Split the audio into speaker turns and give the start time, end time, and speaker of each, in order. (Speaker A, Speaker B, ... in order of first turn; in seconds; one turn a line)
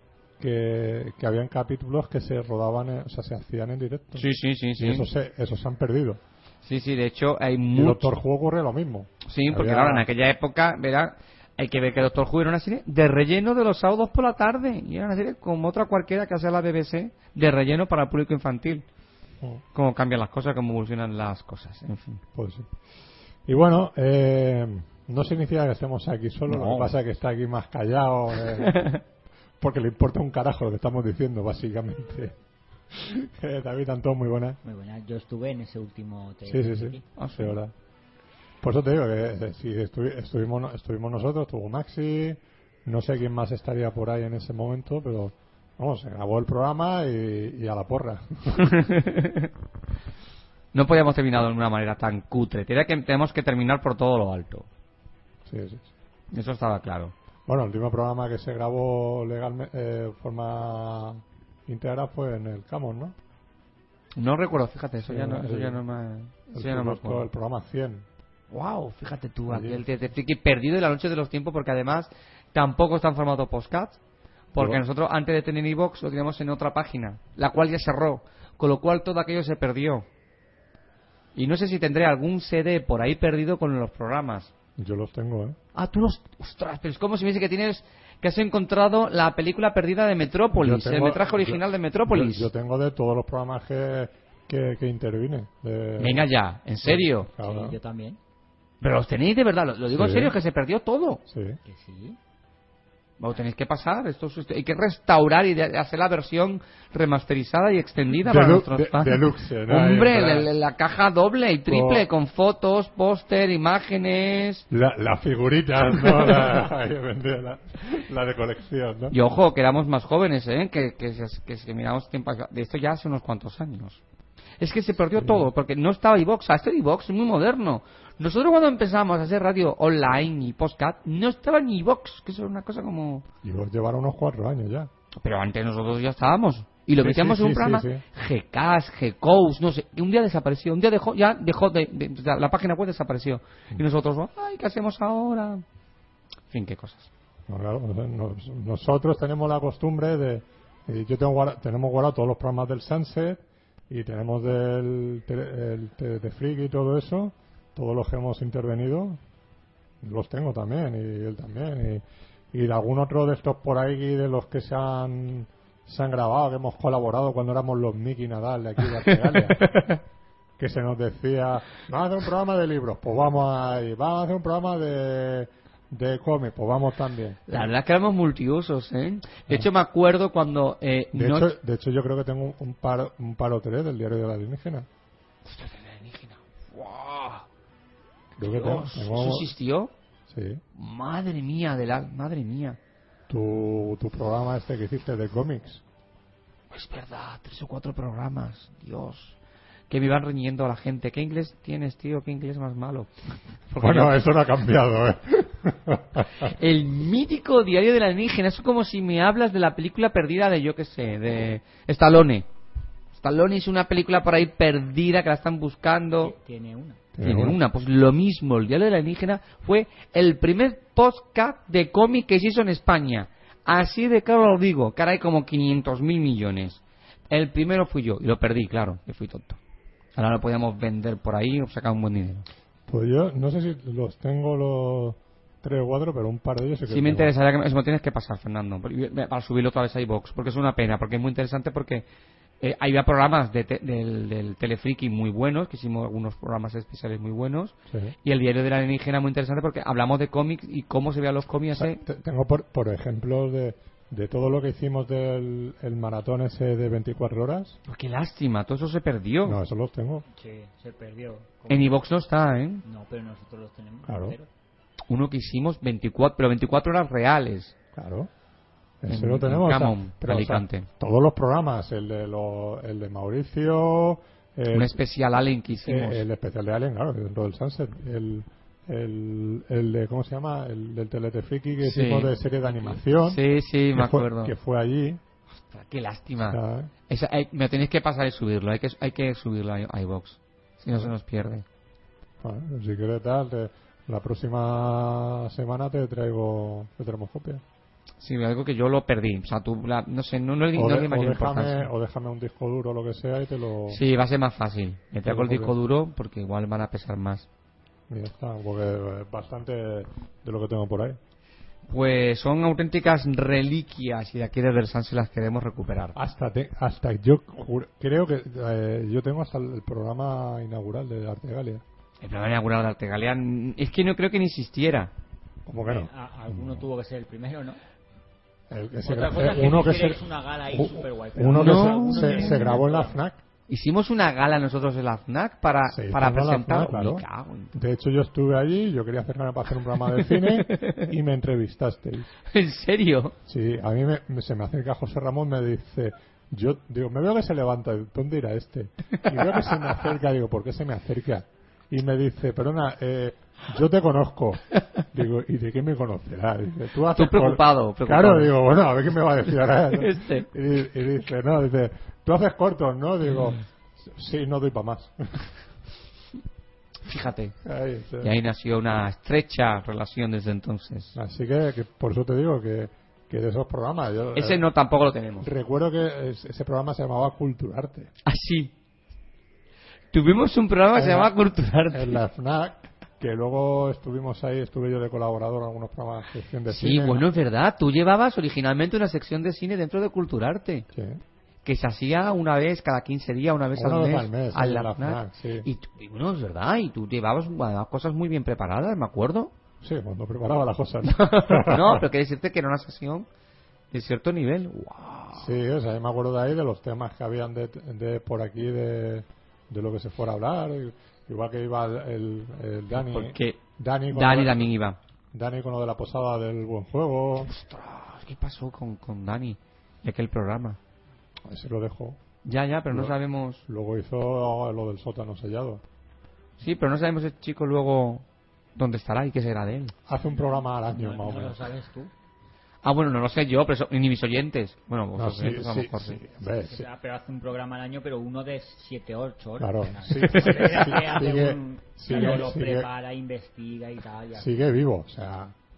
Speaker A: 0.4-6.2
Speaker B: 4.2-5.1
Speaker B: 6.6-8.2
Speaker A: 7.7-10.1
Speaker B: 9.2-18.8
Speaker B: 19.7-22.2
Speaker A: 22.3-22.7
Speaker A: 23.4-28.9
Speaker B: 26.5-26.9
Speaker B: 28.6-29.0
Speaker A: 29.6-32.3
Speaker A: 32.9-34.6
Speaker C: 34.6-37.0
Speaker A: 36.5-37.7
Speaker B: 37.2-37.6
Speaker A: 38.6-48.7
Speaker B: 48.5-49.5
Speaker B: 50.7-54.7
Speaker A: 55.5-55.9
Speaker B: 56.3-57.1
Speaker A: 57.5-63.1
Speaker B: 64.2-67.2
Speaker A: 65.0-65.8
Speaker A: 66.5-68.0
Speaker B: 68.5-74.0
Speaker A: 69.5-69.8
Speaker B: 74.5-80.0
Speaker A: 74.6-74.8
Speaker B: 81.3-84.5
Speaker A: 84.8-85.6
Speaker B: 85.7-92.5
Speaker A: 90.5-96.2
Speaker B: 96.0-97.3
Speaker A: 96.8-97.8
Speaker C: 97.3-98.2
Speaker B: 98.8-101.2
Speaker A: 99.9-100.3
Speaker A: 101.2-101.6
Speaker C: 101.6-102.2
Speaker B: 103.2-114.7
Speaker A: 108.2-110.5
Speaker A: 111.7-112.0
Speaker A: 114.7-119.2
Speaker B: 116.0-116.5
Speaker B: 119.1-124.0
Speaker B: 124.6-133.2
Speaker A: 125.2-125.5
Speaker A: 133.4-134.9
Speaker B: 135.2-145.6
Speaker A: 137.0-138.0
Speaker B: 146.5-147.1
Speaker A: 147.5-159.2
Speaker A: 160.0-169.8
Speaker B: 169.5-170.0
Speaker A: 170.6-177.7
Speaker B: 177.5-181.5
Speaker A: 181.1-184.9
Speaker B: 185.4-187.4
Speaker A: 188.4-189.5
Speaker B: 188.4-189.9
Speaker A: 190.3-190.6
Speaker B: 190.7-192.8
Speaker A: 193.3-195.8
Speaker B: 196.7-199.3
Speaker B: 199.9-203.1
Speaker B: 203.7-204.2
Speaker A: 203.8-206.5
Speaker B: 206.4-212.5
Speaker B: 213.1-216.3
Speaker C: 216.2-217.0
Speaker A: 217.1-217.6
Speaker B: 217.2-229.6
Speaker B: 230.2-232.4
Speaker A: 232.9-237.3
Speaker B: 236.9-242.0
Speaker B: 242.6-252.0
Speaker A: 247.9-248.1
Speaker A: 251.7-257.8
Speaker B: 257.9-259.6
Speaker A: 259.4-260.2
Speaker C: 260.3-261.9
Speaker B: 261.7-262.8
Speaker C: 262.8-264.5
Speaker A: 264.1-264.4
Speaker B: 265.1-267.7
Speaker A: 267.9-268.3
Speaker A: 269.0-275.0
Speaker B: 269.1-270.9
Speaker B: 274.7-276.2
Speaker A: 275.8-283.4
Speaker B: 281.8-284.5
Speaker A: 283.9-285.2
Speaker B: 285.7-291.6
Speaker A: 286.4-286.9
Speaker A: 292.4-297.6
Speaker B: 298.2-301.9
Speaker A: 300.8-304.0
Speaker B: 303.9-307.4
Speaker A: 305.2-305.7
Speaker A: 308.1-311.2
Speaker B: 311.9-316.1
Speaker A: 316.1-321.8
Speaker B: 322.2-325.1
Speaker A: 325.6-326.8
Speaker C: 325.8-327.8
Speaker A: 328.7-333.4
Speaker C: 329.0-333.2
Speaker B: 331.6-332.6
Speaker B: 333.7-337.7
Speaker A: 335.9-342.3
Speaker B: 340.1-341.1
Speaker B: 342.5-343.3
Speaker A: 343.5-365.4
Speaker B: 357.1-358.5
Speaker B: 359.9-360.5
Speaker B: 367.1-367.5
Speaker A: 367.6-368.3
Speaker B: 368.2-371.2
Speaker A: 371.1-374.6
Speaker B: 374.4-375.5
Speaker A: 375.4-378.1
Speaker B: 378.2-378.7
Speaker B: 380.1-382.2
Speaker A: 380.9-381.3
Speaker A: 381.9-387.2
Speaker B: 386.7-390.9
Speaker A: 390.9-391.2
Speaker B: 391.6-399.5
Speaker A: 393.7-395.7
Speaker A: 399.8-402.0
Speaker B: 401.0-403.2
Speaker B: 403.9-405.5
Speaker A: 405.4-414.7
Speaker B: 412.9-413.6
Speaker B: 414.1-415.0
Speaker A: 415.3-417.5
Speaker B: 417.4-420.8
Speaker A: 421.5-422.2
Speaker B: 422.4-423.6
Speaker A: 422.9-423.1
Speaker A: 423.7-425.8
Speaker B: 426.6-428.2
Speaker B: 428.8-429.9
Speaker A: 430.1-431.7
Speaker C: 430.9-432.1
Speaker B: 432.8-436.2
Speaker A: 435.1-436.9
Speaker C: 436.5-444.6
Speaker A: 439.6-442.9
Speaker B: 440.2-440.9
Speaker B: 442.1-442.4
Speaker A: 444.4-445.5